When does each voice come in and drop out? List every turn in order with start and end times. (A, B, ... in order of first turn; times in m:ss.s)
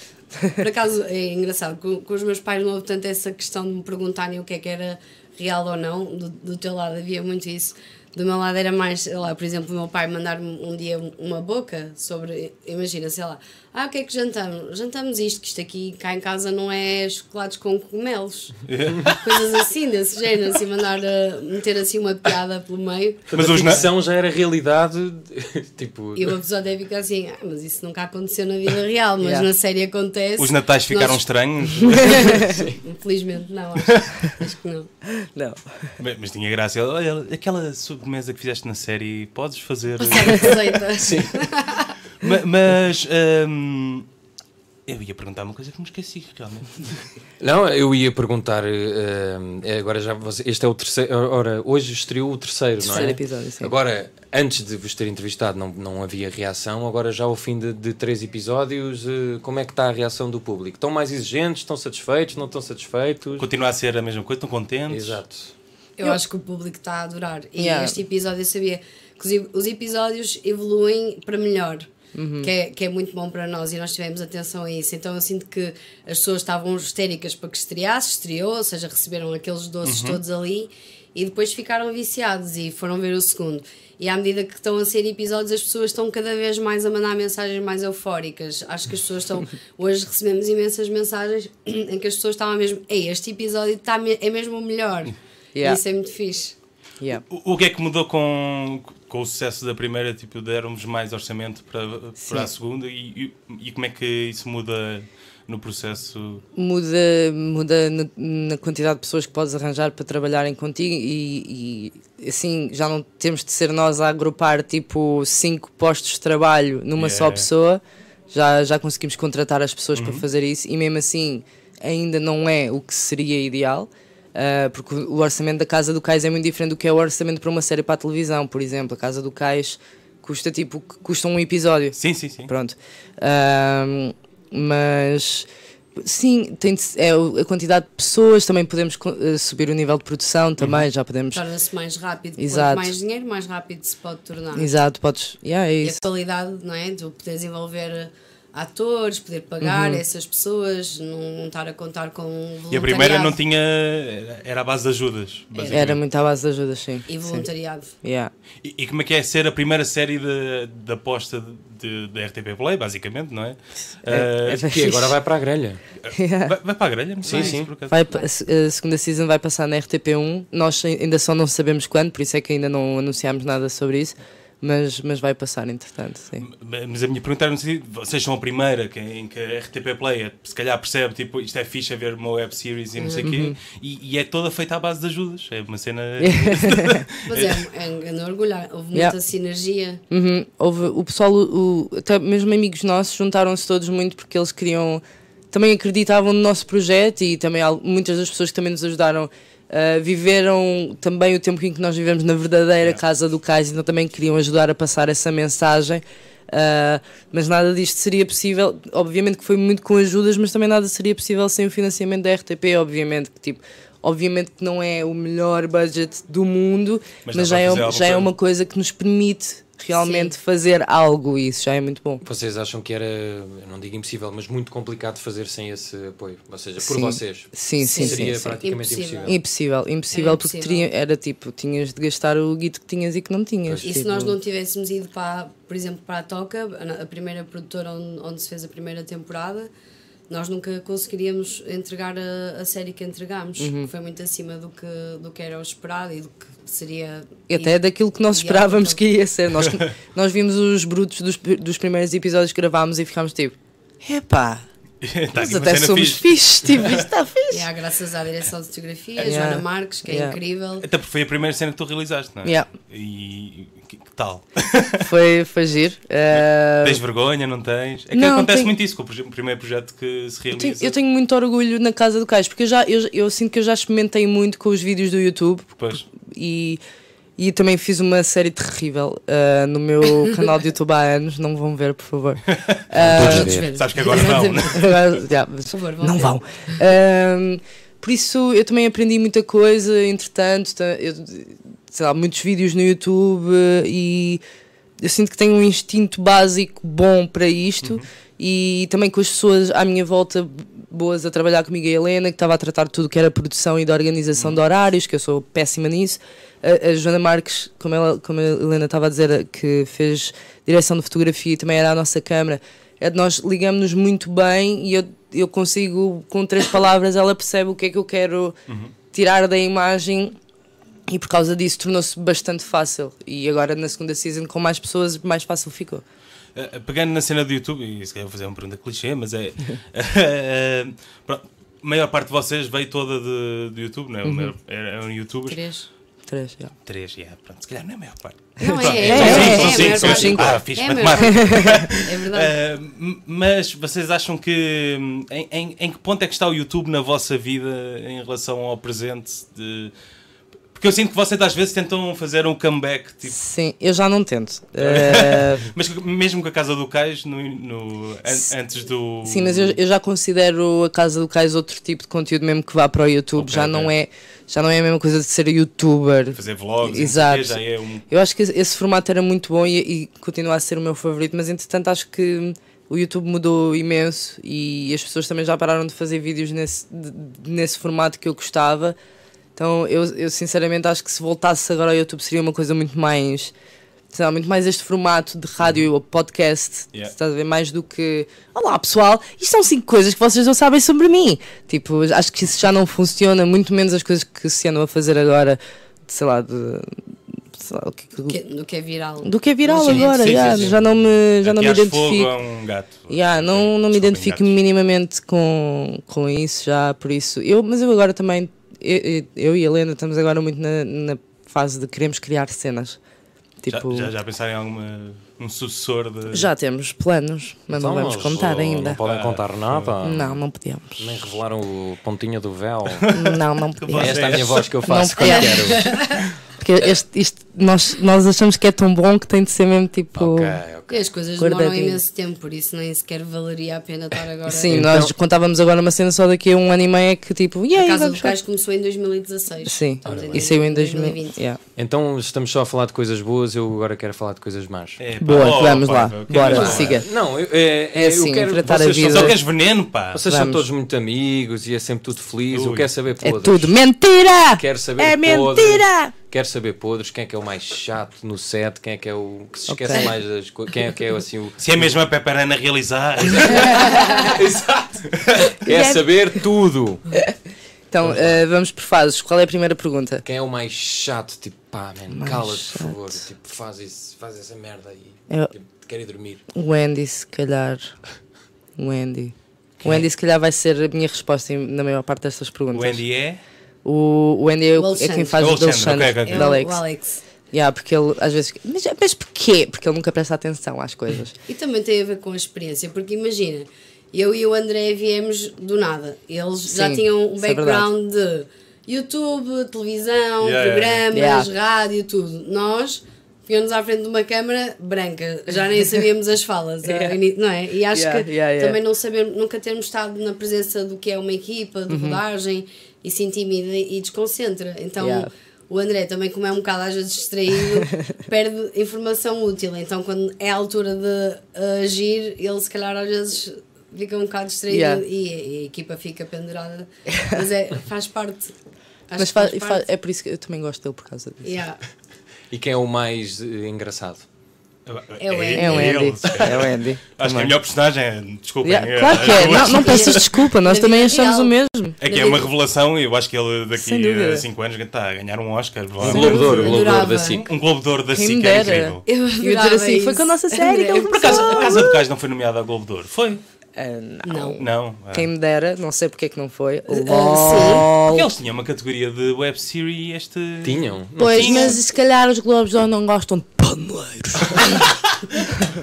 0:00.6-0:23.2 A
0:18.7-0:19.6 B
0:23.3-0:26.4 C
0:23.3-0:23.9 B
0:26.2-0:31.2 A
0:29.2-0:29.5 D
0:30.4-0:32.5 B
0:31.9-0:34.9 A
0:32.0-0:32.5 D
0:32.5-0:32.8 C
0:35.1-0:35.9 D
0:36.0-0:40.8 B
0:40.0-0:42.0 A
0:40.9-0:41.4 C
0:42.2-0:44.1 B
0:44.9-0:47.0 B
0:47.4-1:03.5 C
0:52.8-0:53.7 D
1:03.4-1:05.2 B
1:04.9-1:05.5 C
1:06.0-1:36.6 A
1:07.6-1:08.0 D
1:12.1-1:12.5 D
1:19.8-1:20.2 B
1:35.6-1:35.8 D
1:37.3-1:46.4 B
1:42.2-1:42.5 D
1:46.6-2:12.0 D
1:57.0-1:57.5 B
2:00.0-2:00.2 B
2:12.0-2:12.5 B
2:12.5-2:21.4 D
2:20.6-2:20.8 B
2:21.3-2:24.8 A
2:22.4-2:22.9 D
2:24.5-2:26.0 D
2:25.8-2:33.4 A
2:29.6-2:30.0 D
2:32.7-2:36.0 B
2:35.5-2:35.9 A
2:35.7-2:37.5 D
2:37.1-2:38.0 A
2:38.0-2:38.3 D
2:38.6-2:44.7 B
2:44.0-2:45.2 D
2:44.1-2:45.8 C
2:46.0-2:48.0 B
2:46.1-2:46.6 D
2:47.2-2:47.7 C
2:47.3-2:48.3 A
2:47.9-2:56.5 D
2:56.4-3:07.6 B
3:03.0-3:03.3 A
3:03.2-3:03.6 D
3:06.2-3:07.1 D
3:07.3-3:10.0 A
3:10.1-3:42.2 D
3:37.2-3:38.3 B
3:39.9-3:40.3 A
3:42.2-3:49.4 C
3:46.8-3:48.6 D
3:47.8-3:49.4 A
3:49.2-3:54.4 D
3:50.1-3:50.9 A
3:53.8-3:59.7 A
4:00.3-4:09.0 A
4:03.6-4:03.9 D
4:07.5-4:14.7 D
4:15.0-4:17.1 B
4:15.4-4:17.7 D
4:17.5-4:20.8 A
4:19.2-4:20.4 D
4:20.8-4:25.1 B
4:25.0-4:27.0 D
4:26.3-4:31.0 B
4:28.1-4:28.7 D
4:30.5-4:36.8 D
4:35.8-4:36.0 B
4:37.4-4:43.6 D
4:42.5-4:45.0 B
4:43.0-4:43.7 C
4:43.1-4:44.9 A
4:44.2-4:54.4 D
4:45.7-4:46.8 A
4:55.0-5:18.6 D
5:18.7-5:18.9 B
5:19.1-5:20.4 D
5:21.1-5:26.0 D
5:26.6-5:35.6 B
5:34.2-5:34.5 D
5:35.5-5:35.9 A
5:36.3-5:36.7 D
5:36.9-5:49.9 B
5:38.6-5:42.6 A
5:38.6-5:41.9 D
5:39.1-5:39.6 C
5:50.8-5:53.4 B
5:53.3-5:55.7 D
5:54.8-5:59.8 B
5:59.2-6:19.0 D
6:03.4-6:03.9 B
6:06.4-6:08.0 B
6:19.6-6:23.5 D
6:24.1-6:37.0 D
6:37.5-6:38.4 D
6:38.3-6:40.7 A
6:39.2-6:42.3 D
6:39.7-6:44.5 B
6:43.1-6:53.0 D
6:53.6-6:54.1 D
6:53.7-6:56.5 B
6:56.3-6:59.0 D
6:57.7-7:00.4 C
6:59.0-7:00.0 B
7:00.0-7:01.2 D
7:01.0-7:03.1 C
7:03.0-7:04.7 B
7:03.1-7:05.9 D
7:04.0-7:06.0 C
7:05.2-7:06.3 A
7:06.6-7:10.6 D
7:10.2-7:11.0 C
7:10.9-7:14.8 A
7:11.4-7:12.0 D
7:14.5-7:18.4 D
7:14.7-7:15.1 C
7:17.7-7:21.4 A
7:19.6-7:21.6 D
7:20.1-7:20.5 C
7:21.8-7:25.0 C
7:25.0-7:27.0 B
7:25.2-7:27.1 D
7:26.5-7:29.4 C
7:27.9-7:29.4 D
7:29.0-7:30.2 B
7:30.1-7:33.7 C
7:30.2-7:30.7 D
7:32.5-7:32.9 B
7:33.2-7:36.1 D
7:34.6-7:41.9 C
7:39.7-7:40.1 D
7:41.6-7:44.5 B
7:44.1-7:45.0 C
7:45.1-7:45.6 B
7:45.5-7:47.2 C
7:45.6-7:46.4 D
7:47.9-7:50.2 D
7:48.0-7:48.4 C
7:50.2-7:56.4 C
7:52.1-7:53.2 D
7:56.5-7:58.0 D
7:58.8-8:03.0 D
8:02.7-8:03.4 B
8:03.8-8:06.8 D
8:04.8-8:05.5 A
8:05.4-8:06.5 B
8:06.3-8:07.2 A
8:07.5-8:11.3 D
8:11.5-8:48.6 A
8:16.7-8:17.9 D
8:20.4-8:21.0 B
8:21.1-8:21.5 D
8:26.8-8:27.2 D
8:27.9-8:28.8 D
8:31.9-8:32.2 D
8:35.0-8:35.3 D
8:37.8-8:38.1 D
8:44.7-8:45.0 D
8:49.1-8:49.9 A
8:49.2-8:51.5 D
8:51.4-8:51.8 A
8:52.5-8:54.2 C
8:54.9-9:00.4 B
8:55.2-8:56.0 A
8:55.6-8:57.6 D
8:58.6-9:02.0 D
8:59.4-9:02.5 A
9:02.0-9:09.0 B
9:03.8-9:04.4 D
9:06.0-9:07.5 C
9:06.1-9:06.4 D
9:06.1-9:07.4 A
9:08.1-9:12.0 D
9:09.1-9:11.8 A
9:11.1-9:13.4 B
9:13.8-9:18.3 D
9:14.2-9:14.6 A
9:14.6-9:15.3 B
9:16.9-9:17.9 A
9:18.1-9:21.8 B
9:20.6-9:21.8 C
9:21.2-9:24.9 D
9:24.6-9:25.6 B